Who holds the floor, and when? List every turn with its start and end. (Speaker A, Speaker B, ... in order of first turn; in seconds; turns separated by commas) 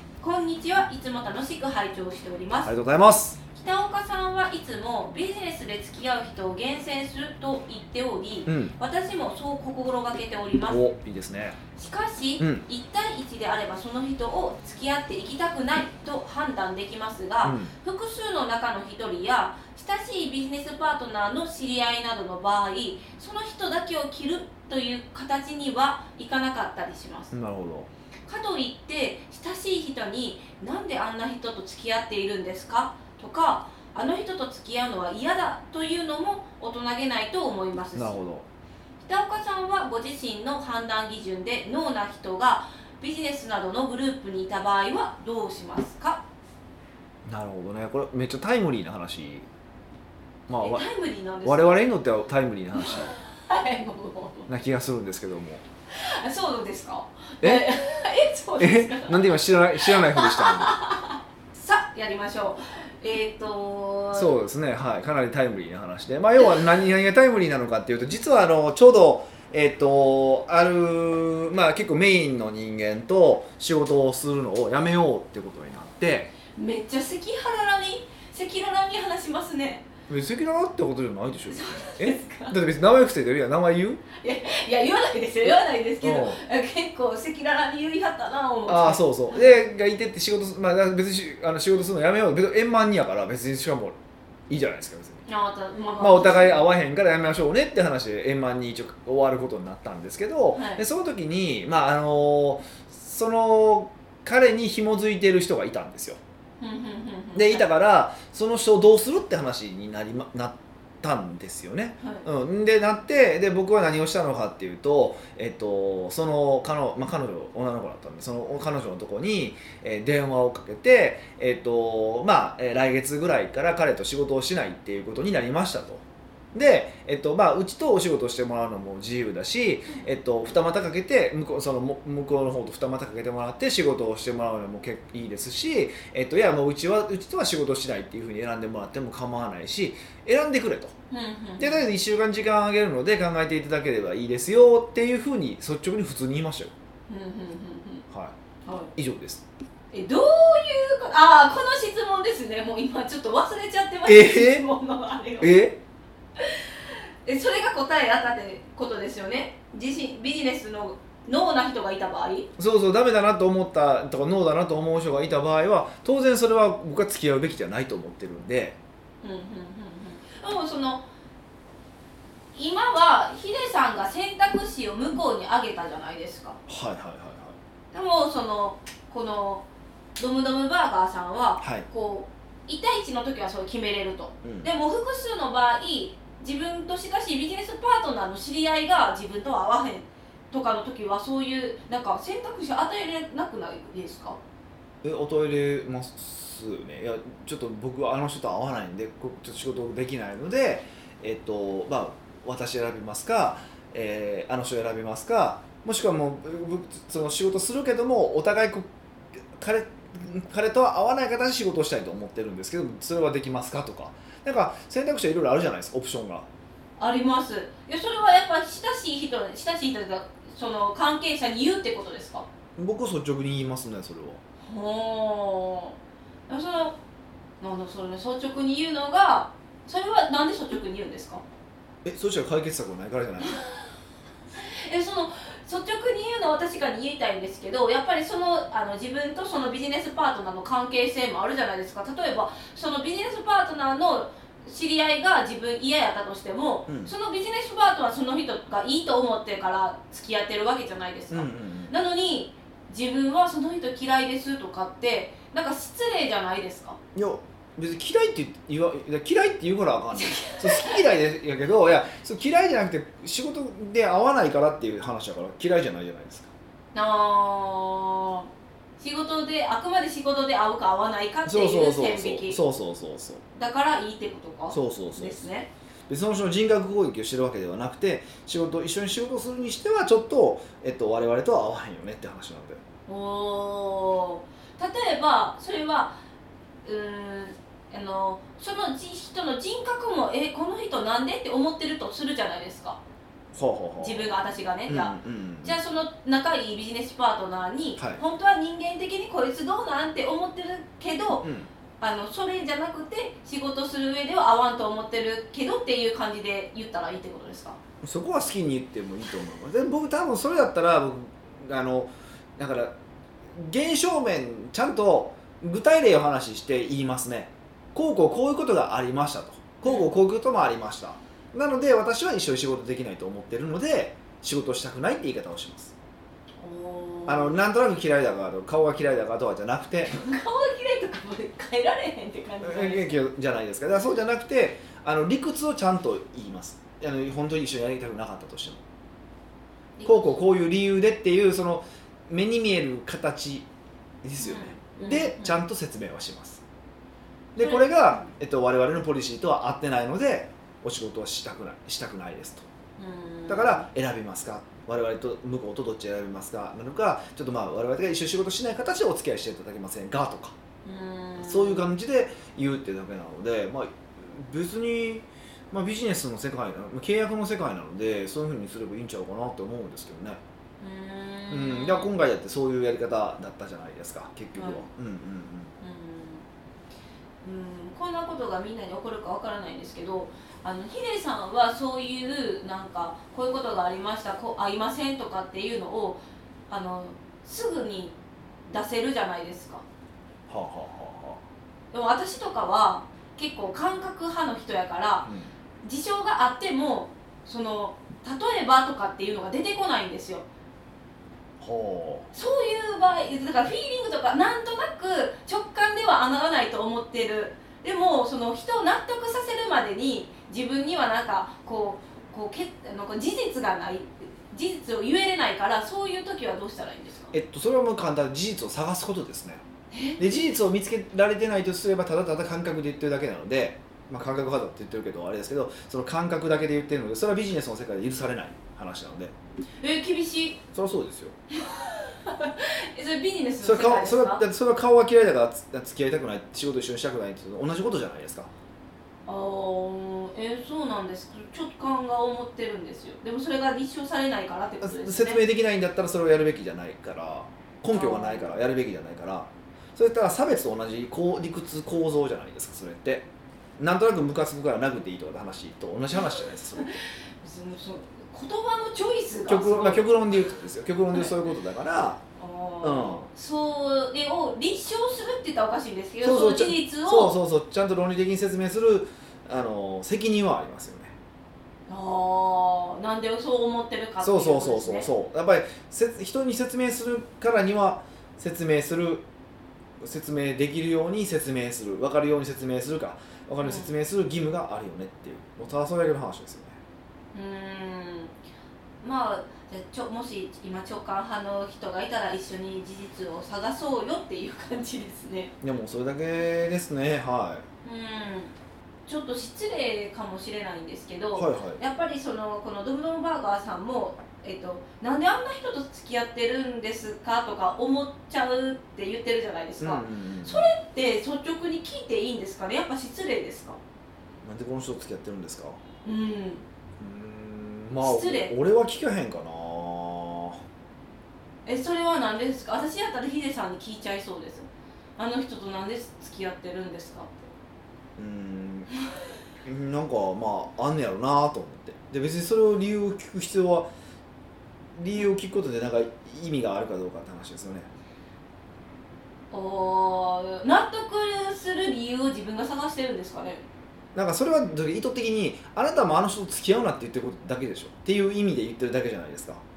Speaker A: 0.2-2.7, Speaker B: 2.6-3.4, Speaker A: 3.5-10.8, Speaker B: 8.4-8.8, Speaker B: 10.7-11.6, Speaker A: 11.8-27.3, Speaker B: 12.4-12.6, Speaker B: 17.4-17.7, Speaker B: 27.3-27.9, Speaker A: 28.3-38.2, Speaker B: 37.9-38.5, Speaker A: 39.0-46.2, Speaker B: 47.2-49.5, Speaker B: 50.5-50.9, Speaker A: 50.5-51.8, Speaker B: 51.4-53.1, Speaker A: 52.8-54.5, Speaker B: 54.5-55.6, Speaker A: 55.9-64.3, Speaker B: 57.4-57.7, Speaker B: 58.6-60.8, Speaker B: 64.1-76.3, Speaker A: 76.5-79.8, Speaker B: 80.1-84.0, Speaker A: 81.5-82.5, Speaker A: 84.2-89.5, Speaker B: 86.0-86.4, Speaker B: 88.7-94.0, Speaker B: 94.5-95.2, Speaker A: 95.3-96.7, Speaker B: 96.0-106.2, Speaker A: 100.5-100.8, Speaker A: 106.6-107.7, Speaker B: 107.3-126.0, Speaker A: 112.0-112.3, Speaker B: 126.5-140.9, Speaker A: 141.1-141.9, Speaker B: 141.6-146.7, Speaker A: 147.1-148.1, Speaker A: 148.7-148.9, Speaker B: 148.9-149.4, Speaker A: 149.9-155.5, Speaker B: 154.0-154.7, Speaker B: 155.4-155.8, Speaker A: 156.4-162.5, Speaker B: 162.6-168.8, Speaker A: 169.2-171.0, Speaker A: 172.5-176.6, Speaker B: 176.7-177.5, Speaker A: 177.9-179.6, Speaker A: 180.2-194.4, Speaker B: 181.6-181.8, Speaker B: 184.4-184.7, Speaker B: 195.0-208.8, Speaker B: 209.5-216.5, Speaker A: 217.0-222.4, Speaker B: 222.8-224.4, Speaker A: 224.6-225.9, Speaker A: 226.5-226.9, Speaker A: 227.6-231.4, Speaker B: 232.0-233.6, Speaker A: 233.4-233.8, Speaker A: 234.6-257.0, Speaker B: 251.3-251.9, Speaker B: 257.1-266.5, Speaker A: 260.1-261.0, Speaker A: 266.9-268.5, Speaker A: 269.0-272.6, Speaker B: 271.4-273.4, Speaker A: 273.5-275.7, Speaker B: 274.7-275.4, Speaker B: 276.1-282.8, Speaker A: 283.1-286.2, Speaker A: 286.8-293.0, Speaker B: 293.5-294.3, Speaker A: 294.0-301.4, Speaker B: 294.9-295.8, Speaker B: 301.4-301.7, Speaker A: 302.0-307.8, Speaker B: 308.0-312.9, Speaker B: 313.5-325.9, Speaker A: 326.6-327.6, Speaker B: 327.3-330.2, Speaker A: 330.2-333.2, Speaker B: 332.6-338.8, Speaker A: 340.0-340.4, Speaker B: 340.0-343.7, Speaker B: 344.2-346.6, Speaker A: 344.4-345.6, Speaker B: 347.6-352.6, Speaker A: 347.6-348.3, Speaker A: 353.0-353.9, Speaker B: 353.5-360.5, Speaker A: 360.8-361.9, Speaker B: 361.4-370.4, Speaker A: 370.8-372.1, Speaker B: 371.5-375.7, Speaker A: 374.6-374.8, Speaker A: 375.8-376.4, Speaker A: 377.4-388.1, Speaker A: 388.7-389.8, Speaker B: 390.5-391.4, Speaker A: 391.9-395.3, Speaker B: 395.2-395.5, Speaker A: 395.8-400.4, Speaker B: 401.6-402.3, Speaker A: 402.3-417.3, Speaker B: 417.3-419.6, Speaker A: 419.9-420.4, Speaker B: 420.2-429.3, Speaker A: 429.8-430.6, Speaker B: 430.7-431.4, Speaker A: 431.5-434.4, Speaker B: 433.6-438.5, Speaker A: 439.3-445.4, Speaker B: 444.8-456.9, Speaker A: 447.9-448.5, Speaker A: 457.4-460.1, Speaker B: 459.4-462.2, Speaker A: 462.4-467.3, Speaker B: 462.8-463.3, Speaker B: 466.2-471.1, Speaker A: 471.9-475.1, Speaker B: 474.2-479.2, Speaker B: 480.0-486.8, Speaker A: 483.6-483.9, Speaker A: 487.3-488.3, Speaker A: 489.0-495.5, Speaker B: 495.6-497.6, Speaker A: 497.8-498.5, Speaker A: 499.1-513.8, Speaker B: 501.4-501.8, Speaker B: 509.8-510.7, Speaker B: 514.4-515.8, Speaker A: 516.0-516.6, Speaker B: 517.0-520.6, Speaker A: 518.0-518.5, Speaker A: 521.6-527.5, Speaker B: 528.2-528.9, Speaker B: 529.6-533.9, Speaker B: 535.0-537.9, Speaker A: 539.5-543.6, Speaker B: 544.1-549.6